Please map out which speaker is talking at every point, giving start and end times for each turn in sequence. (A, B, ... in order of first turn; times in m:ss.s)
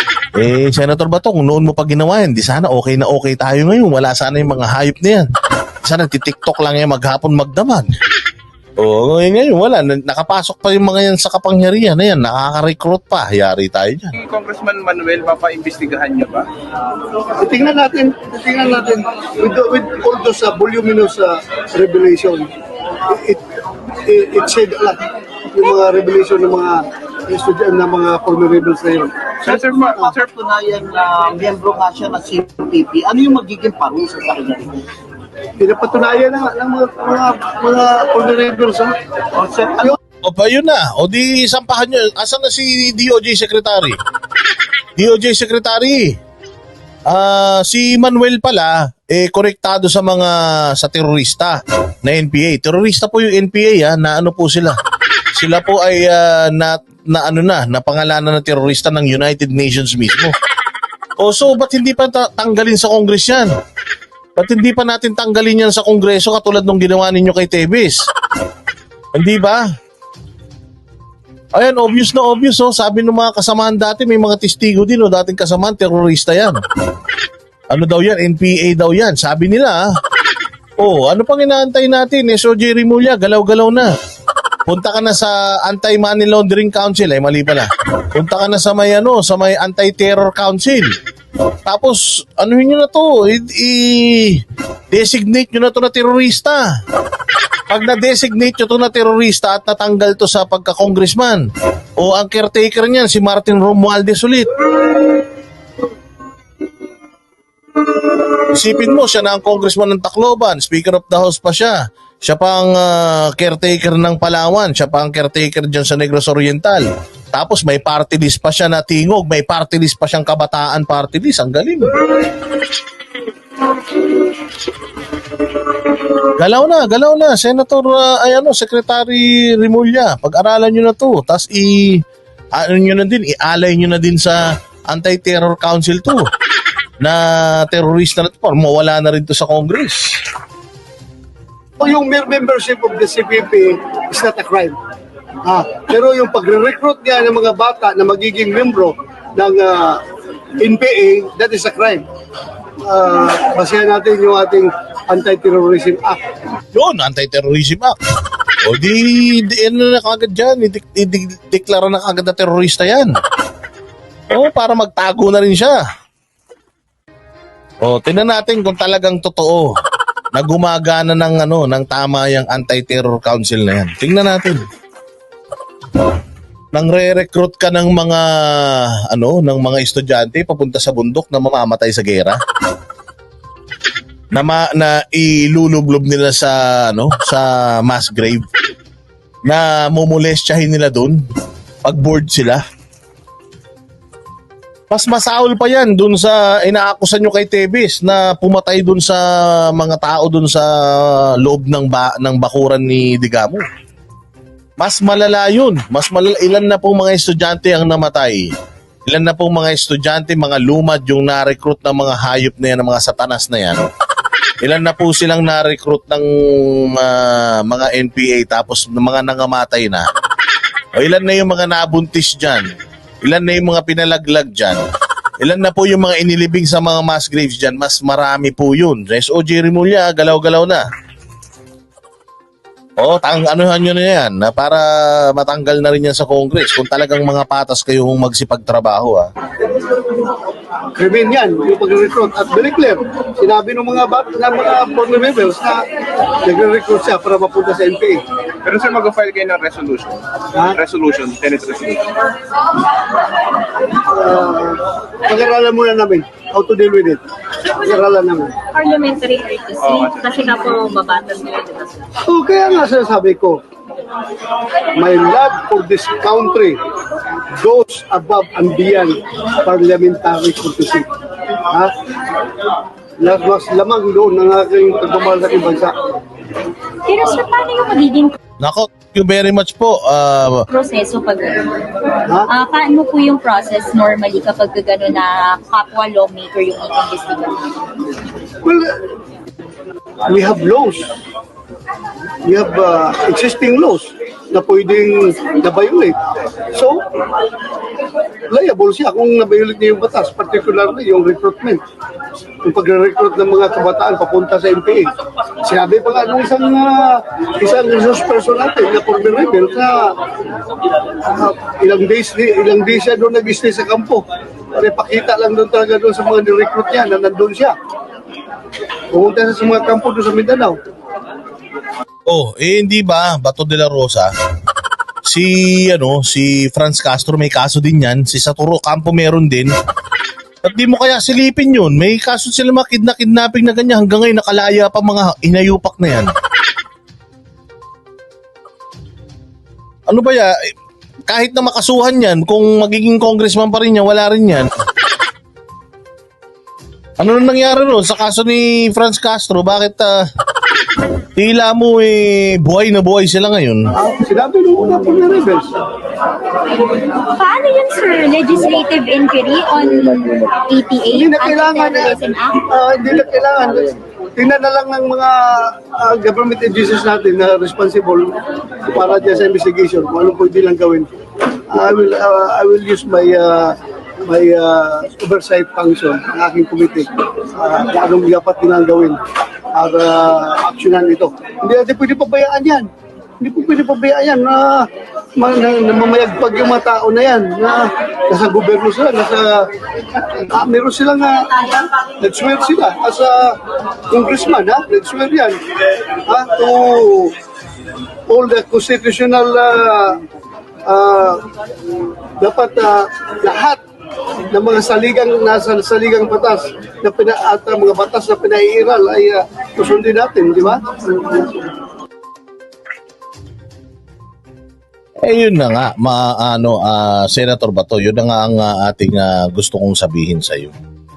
0:00.4-0:05.3 A
0:05.8-0:08.0 A
0:08.8-0:14.1 A
0:14.2-0:16.5 B
0:17.4-0:22.5 C
0:23.0-0:23.4 C
0:24.0-0:25.0 C
0:25.5-0:29.4 C
0:29.4-0:30.2 B
0:29.4-0:34.8 D
0:35.6-0:39.0 C
0:39.3-0:40.0 D
0:40.2-0:44.0 A
0:45.0-0:46.2 A
0:47.1-0:54.8 A
0:55.3-1:00.4 A
1:01.2-1:03.5 A
1:04.4-1:08.1 A
1:09.1-1:09.6 A
1:11.5-1:16.6 A
1:17.7-1:19.8 A
1:20.8-1:23.9 A
1:24.7-1:31.0 A
1:31.6-1:36.7 A
1:37.7-1:41.4 A
1:42.0-1:44.5 A
1:48.5-2:02.0 A
2:06.4-2:12.0 A
2:12.6-2:16.3 A
2:17.0-2:20.2 A
2:21.8-2:24.8 C
2:25.4-2:30.0 C
2:30.6-2:32.0 C
2:32.8-2:36.2 C
2:36.7-2:38.0 A
2:38.6-2:43.2 A
2:44.3-2:45.8 A
2:47.8-2:49.7 A
2:50.3-2:54.6 A
2:56.7-3:02.4 A
3:04.3-3:08.5 A
3:09.4-3:11.2 A
3:11.8-3:12.6 A
3:14.9-3:23.6 A
3:24.8-3:28.5 A
3:29.1-3:33.8 A
3:34.6-3:40.1 A
3:41.0-3:42.7 A
3:43.2-3:44.9 A
3:45.4-3:50.8 A
3:53.0-3:59.3 A
4:01.0-4:05.8 C
4:06.4-4:08.2 C
4:08.6-4:12.1 B
4:14.0-4:17.2 C
4:17.8-4:18.6 C
4:18.7-4:22.0 E
4:19.8-4:20.3 B
4:22.2-4:23.6 C
4:25.0-4:26.8 C
4:27.6-4:31.1 C
4:33.2-4:36.0 C
4:37.1-4:38.4 E
4:38.6-4:40.7 A
4:40.7-4:41.9 E
4:42.5-4:47.8 E
4:48.6-4:49.0 C
4:50.3-4:51.2 C
4:52.4-4:56.2 C
4:56.7-4:57.0 C
4:58.5-5:01.8 C
5:02.6-5:10.2 C
5:11.3-5:17.7 C
5:19.1-5:20.8 C
5:22.3-5:24.3 A
5:25.3-5:29.7 A
5:30.6-5:36.3 A
5:40.1-5:40.6 A
5:41.3-5:44.7 A
5:47.2-5:50.2 A
5:51.4-5:53.9 A
5:54.0-5:55.7 C
5:57.0-6:02.6 E
6:01.1-6:11.1 C
6:11.7-6:19.2 C
6:19.7-6:33.6 C
6:34.1-6:35.6 C
6:36.3-6:37.4 C
6:38.3-6:40.2 C
6:40.9-6:41.4 C
6:42.4-6:43.8 C
6:44.5-6:51.6 C
6:55.2-7:00.8 A